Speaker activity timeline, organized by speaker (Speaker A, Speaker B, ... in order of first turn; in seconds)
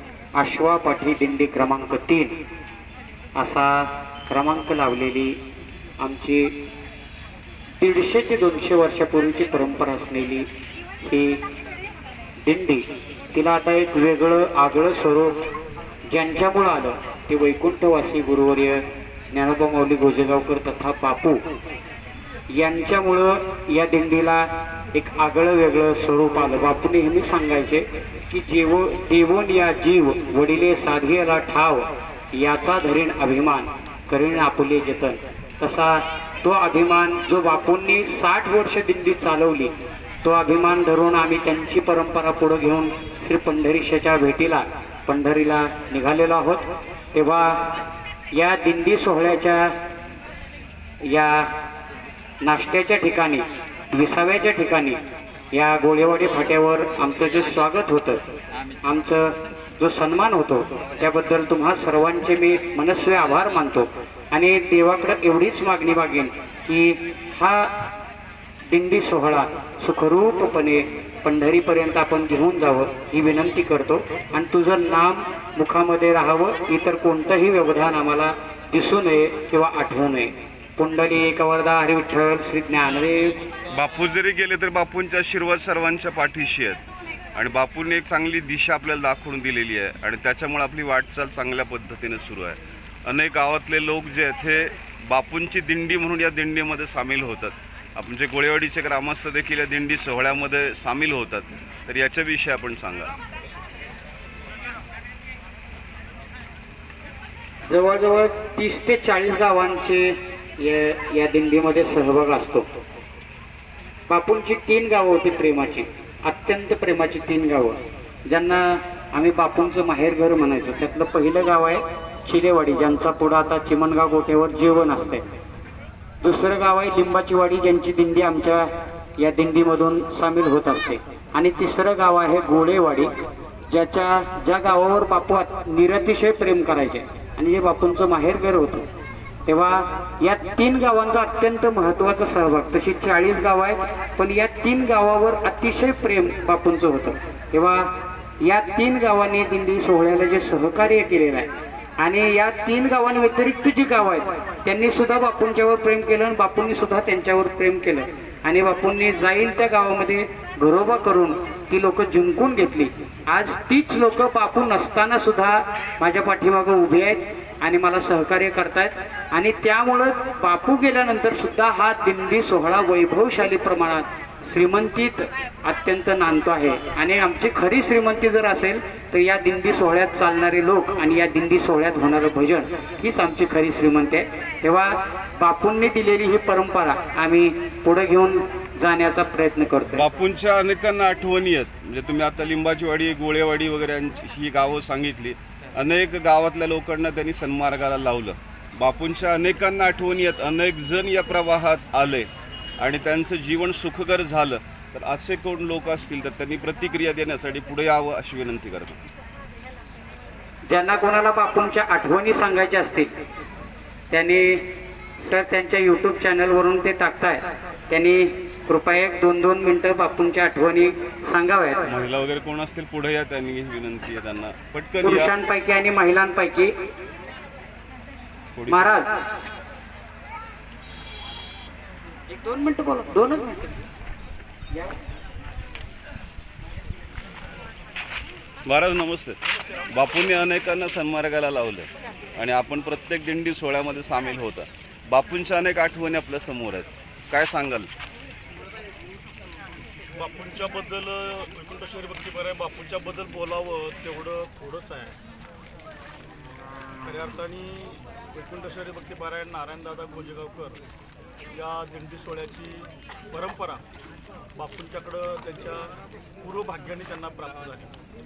Speaker A: 0.3-2.4, 3.4-5.4, 6.0-6.5, 7.8-10.4, 11.0-11.4, 12.4-15.4, 16.1-21.4, 22.5-39.7, 40.2-47.6, 48.3-49.7, 51.0-51.5, 52.4-55.0, 55.5-58.2, 58.8-67.7, 68.7-83.3, 107.7-112.7, 114.1-125.2, 126.2-133.1, 133.7-138.9, 139.5-147.9, 148.4-190.0, 210.7-213.1, 214.1-214.6, 215.2-221.8, 225.0-226.7, 228.7-229.1, 232.3-233.7
Speaker B: 83.7-86.8, 87.3-103.1, 189.9-202.3, 202.8-209.0, 221.9-225.3, 228.5-228.9, 238.7-239.4, 239.9-247.9
Speaker C: 250.1-255.2, 257.0-260.8, 261.5-263.8, 264.5-267.9